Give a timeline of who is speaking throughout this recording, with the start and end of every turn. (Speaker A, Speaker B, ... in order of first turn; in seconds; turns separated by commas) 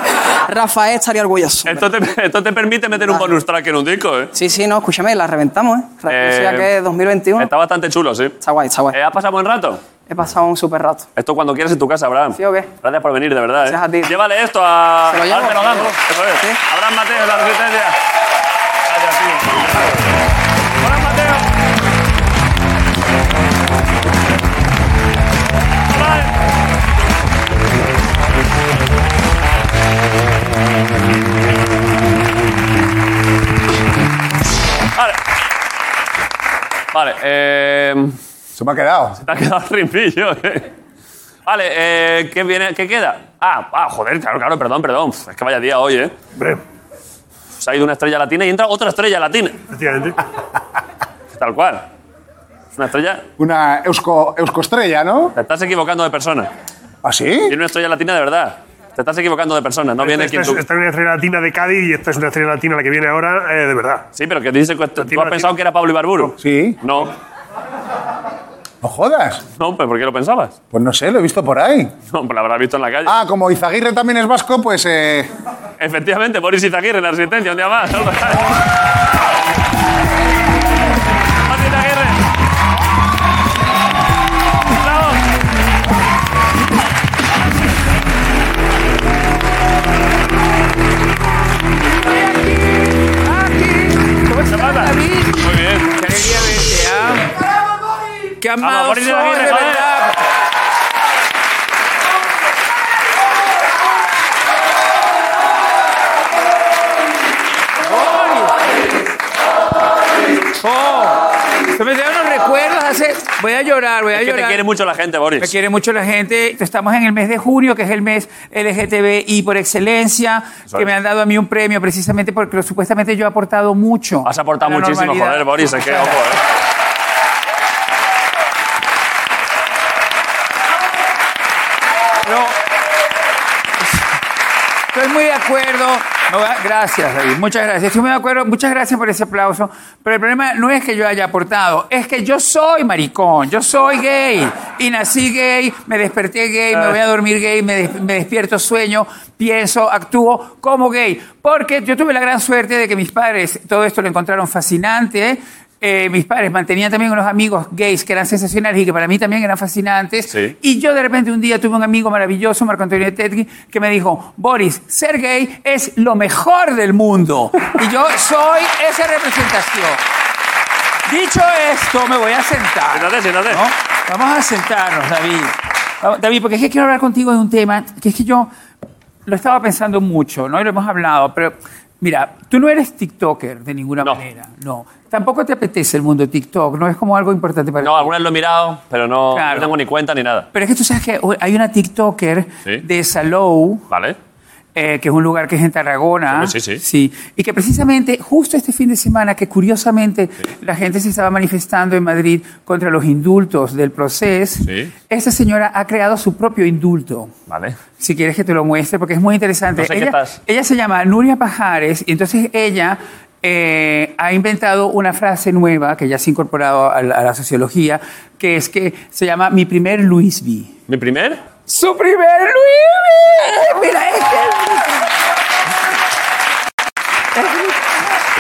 Speaker A: 0.5-1.9, Speaker B: 1.6-4.3, Speaker A: 3.0-3.3, Speaker A: 4.3-7.5, Speaker B: 6.1-6.7, Speaker B: 7.4-8.3, Speaker A: 8.4-9.0, Speaker B: 8.9-9.8, Speaker A: 10.1-11.1, Speaker B: 11.2-18.0, Speaker A: 12.4-12.7, Speaker A: 13.7-14.2, Speaker A: 15.1-16.6, Speaker B: 18.9-20.1, Speaker B: 20.8-21.4, Speaker B: 25.9-26.3, Speaker B: 36.9-38.1, Speaker C: 38.6-39.2, Speaker B: 39.2-40.7, Speaker B: 41.5-46.1, Speaker B: 47.6-49.6, Speaker D: 49.7-50.2, Speaker B: 51.4-51.9, Speaker B: 52.8-53.2, Speaker C: 53.4-55.4, Speaker B: 55.4-56.5, Speaker C: 57.0-57.5, Speaker B: 57.5-60.6, Speaker D: 60.0-64.0, Speaker B: 64.2-67.1, Speaker D: 65.0-65.5, Speaker C: 66.4-66.8, Speaker C: 68.8-69.4, Speaker B: 69.6-70.5, Speaker C: 70.7-71.9, Speaker B: 72.1-73.1, Speaker C: 73.1-75.3, Speaker B: 75.8-78.6, Speaker B: 81.5-82.2, Speaker B: 84.7-85.2, Speaker E: 92.0-97.3, Speaker B: 94.5-96.0, Speaker E: 98.4-100.2, Speaker B: 98.6-99.9, Speaker E: 107.8-108.5, Speaker E: 110.6-114.6, Speaker B: 114.1-115.5, Speaker E: 115.4-126.3, Speaker B: 124.2-126.4, Speaker E: 132.2-132.6, Speaker E: 134.9-170.0, Speaker E: 171.1-178.5, Speaker B: 172.9-173.6, Speaker E: 179.3-188.1, Speaker B: 187.8-190.5, Speaker E: 189.3-189.8, Speaker E: 190.5-193.8, Speaker B: 193.9-194.2, Speaker E: 194.8-207.3, Speaker B: 196.3-196.8, Speaker B: 204.7-204.9, Speaker B: 207.5-207.8, Speaker E: 208.0-220.7, Speaker B: 209.8-210.4, Speaker B: 220.9-221.4, Speaker E: 221.7-225.0, Speaker E: 227.3-228.0